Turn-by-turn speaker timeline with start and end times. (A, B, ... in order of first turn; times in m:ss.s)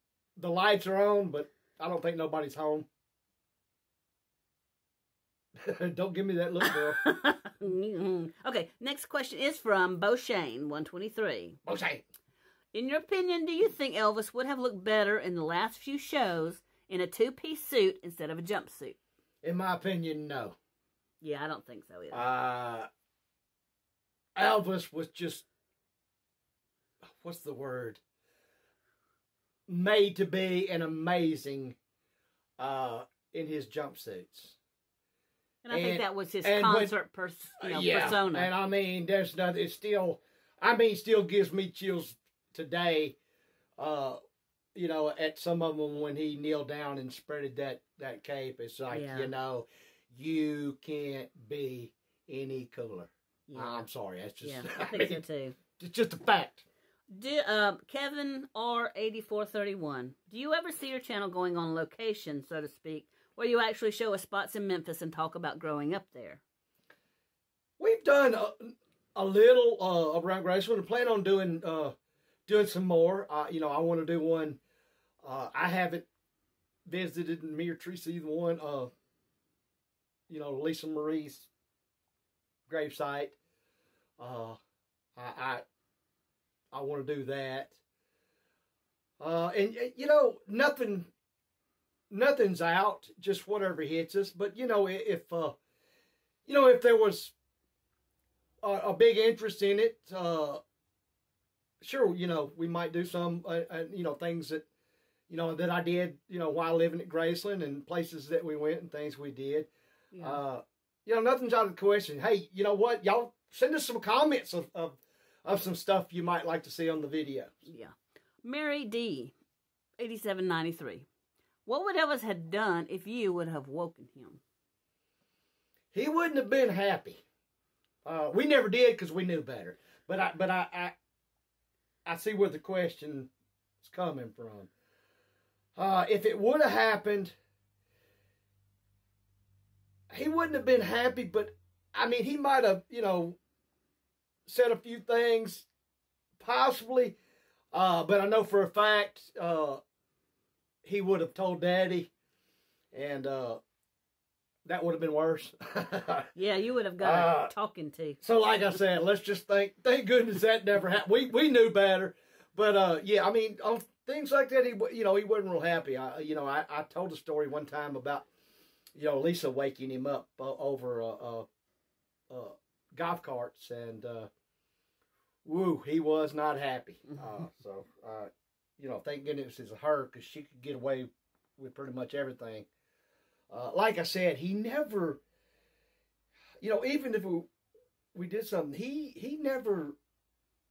0:00.4-0:02.9 A
0:05.6-0:07.0 A
0:06.6-0:11.6 B
0:11.6-0:12.0 A
0:12.7-0:19.0 B
0:19.4-0:20.6 A
0:21.2-0:22.2 B
0:22.1-0:22.9 A
0:24.4-0:25.4 A
0:27.2-0:28.0 A
0:29.7-0:31.8 A
0:32.6-0:34.6 A
0:35.6-0:38.5 B
0:35.7-0:36.9 A
0:37.6-0:43.2 A
0:43.8-0:44.2 A
0:44.7-0:55.2 A
0:48.9-0:49.3 B
0:53.5-0:53.9 B
0:54.4-0:55.6 B
0:55.8-0:56.6 A
0:57.1-1:06.4 B
1:07.8-1:11.9 A
1:12.5-1:14.6 A
1:15.2-1:16.1 A
1:16.8-1:18.9 A
1:20.3-1:21.5 A
1:22.7-1:23.4 A
1:24.2-1:24.6 A
1:25.2-1:25.6 A
1:26.7-1:27.8 A
1:29.2-1:31.1 A
1:32.1-1:35.6 A
1:36.4-1:37.3 A
1:38.6-1:40.6 A
1:41.8-1:44.6 A
1:45.3-1:57.5 A
1:50.1-1:50.4 B
1:57.6-1:59.3 B
2:00.0-2:01.0 B
2:01.6-2:04.4 B
2:05.9-2:07.2 A
2:08.0-2:11.0 A
2:12.0-2:13.3 A
2:13.8-2:14.7 A
2:15.8-2:17.3 A
2:20.1-2:23.4 A
2:24.5-2:25.7 A
2:26.4-2:27.2 A
2:27.7-2:29.8 A
2:30.8-2:32.1 A
2:32.9-2:33.6 A
2:34.6-2:36.3 A
2:36.3-2:38.2 B
2:37.0-2:37.5 A
2:38.2-2:48.2 A
2:48.9-2:51.5 A
2:52.3-2:54.3 A
2:55.4-3:02.7 A
3:03.5-3:05.2 A
3:06.6-3:07.5 A
3:08.1-3:10.0 A